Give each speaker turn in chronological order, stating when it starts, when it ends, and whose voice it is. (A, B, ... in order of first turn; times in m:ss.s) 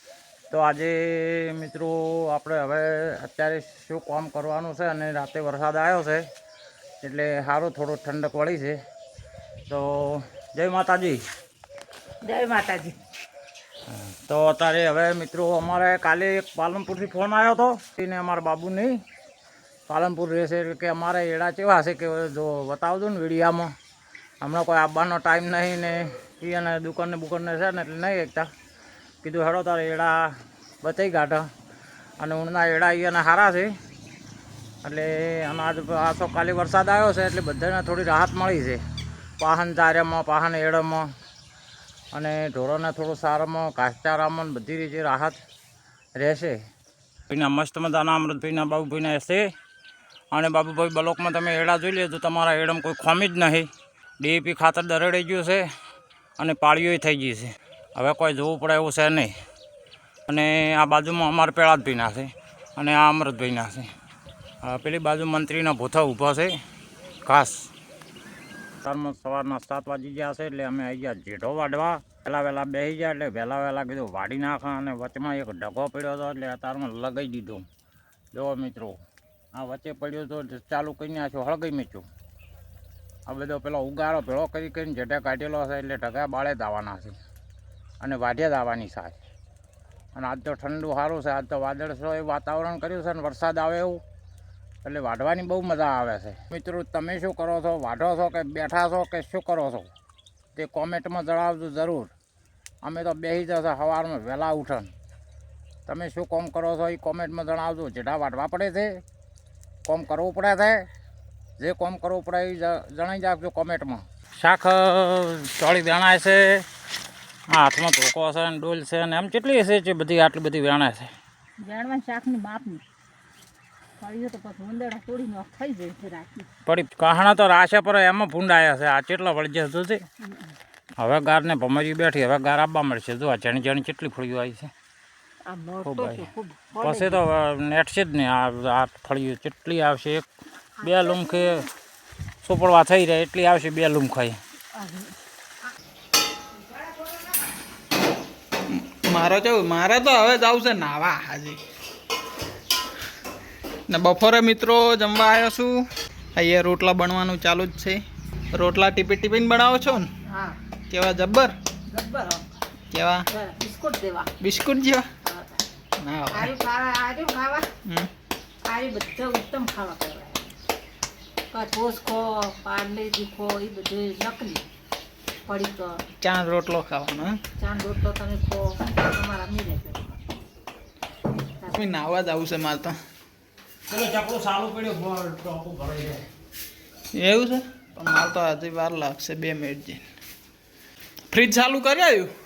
0:00.5-0:06.2 A
0:07.0-0:08.8 A
0:09.7-0:11.2 A
0:12.2-0:13.0 B
0:13.9-0:19.0 A
0:19.9-0:23.7 A
0:24.4-0:28.5 A
0:29.2-0:30.2 A
0:30.8-0:31.5 A
0:32.2-0:33.7 A
0:34.8-0:38.8 A
0:39.4-0:41.1 A
0:42.1-0:45.4 A
0:46.2-0:46.6 A
0:47.3-0:49.4 A
0:50.3-0:53.7 A
0:54.2-0:55.6 A
0:56.4-0:59.3 A
1:00.3-1:03.9 A
1:04.6-1:06.5 A
1:07.2-1:07.7 A
1:08.8-1:17.7 A
1:18.3-1:19.0 A
1:19.5-1:22.1 A
1:23.3-1:27.2 A
1:28.0-1:29.2 A
1:30.2-1:34.0 A
1:34.8-1:39.9 A
1:40.6-1:42.1 A
1:42.8-1:44.9 A
1:45.9-1:49.0 A
1:49.9-1:50.9 A
1:51.6-1:56.6 A
1:57.5-2:01.1 A
2:01.6-2:02.8 B
2:04.0-2:06.5 B
2:06.6-2:10.0 A
2:11.0-2:14.7 A
2:15.4-2:17.2 B
2:15.8-2:20.2 A
2:20.8-2:21.6 A
2:20.8-2:21.6 B
2:22.4-2:24.4 A
2:24.7-2:25.1 B
2:26.5-2:27.4 B
2:28.7-2:31.6 C
2:33.9-2:35.8 C
2:36.4-2:38.0 C
2:38.5-2:40.1 C
2:40.3-2:40.6 B
2:40.9-2:41.5 C
2:41.9-2:42.4 B
2:42.9-2:43.3 C
2:43.3-2:44.3 B
2:44.4-2:45.1 C
2:45.2-2:45.6 B
2:46.0-2:46.5 C
2:46.3-2:47.7 B
2:48.7-2:50.5 B
2:51.5-2:54.6 B
2:55.5-2:56.0 B
2:56.2-2:57.4 C
2:57.6-3:00.1 B
3:01.7-3:02.9 C
3:03.9-3:06.2 A
3:07.1-3:10.0 C
3:11.3-3:12.3 C